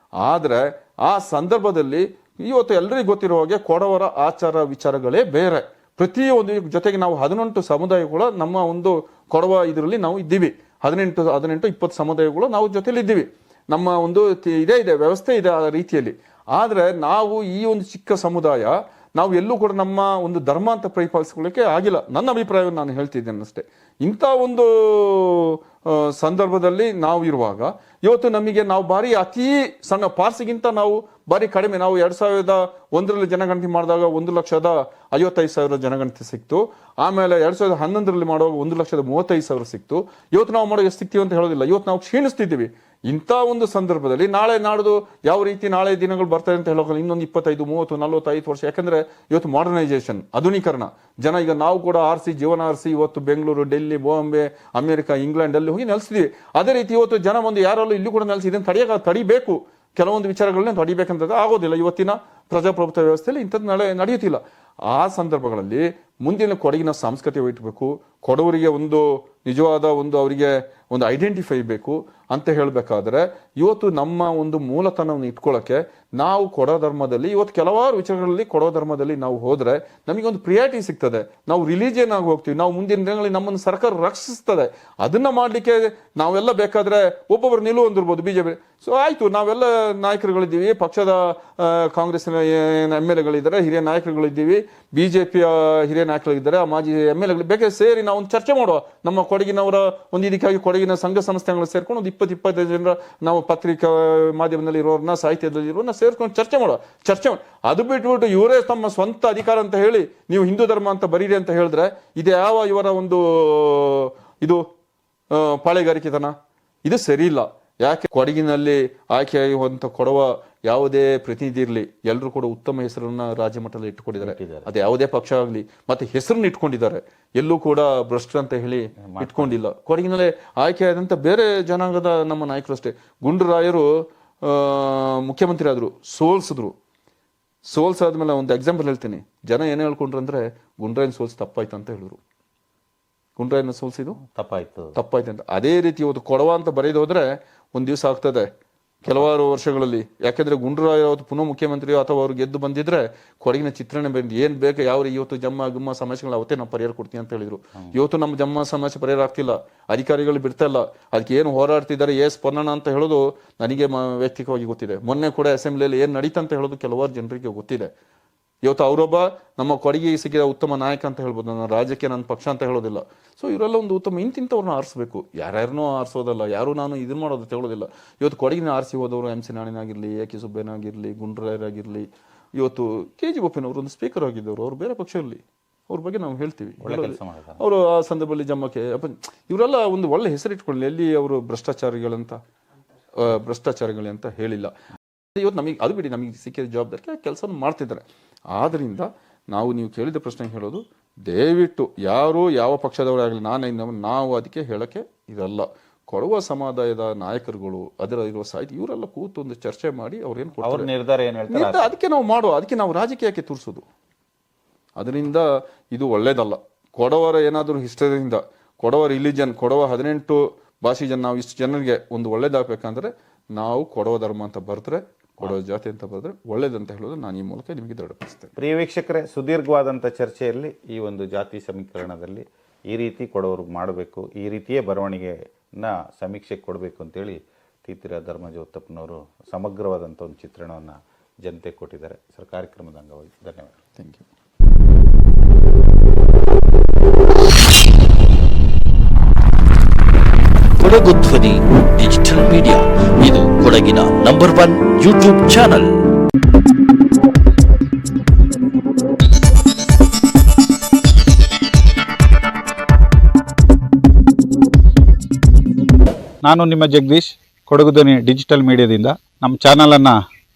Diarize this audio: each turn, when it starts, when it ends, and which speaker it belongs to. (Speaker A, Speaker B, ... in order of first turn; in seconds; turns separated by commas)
Speaker A: 0.2-114.6, Speaker A: 115.3-133.9, Speaker B: 124.2-124.7, Speaker B: 129.0-129.6, Speaker A: 134.4-136.8, Speaker A: 137.7-142.2, Speaker A: 143.4-144.2, Speaker B: 144.3-145.0, Speaker A: 144.9-148.5, Speaker A: 149.0-167.9, Speaker A: 168.7-192.4, Speaker B: 186.8-187.6, Speaker A: 193.2-194.7, Speaker A: 195.3-210.9, Speaker B: 210.6-211.9, Speaker A: 211.5-213.8, Speaker A: 215.0-228.5, Speaker B: 228.6-243.8, Speaker A: 244.0-244.2, Speaker C: 250.8-255.9, Speaker B: 266.4-270.2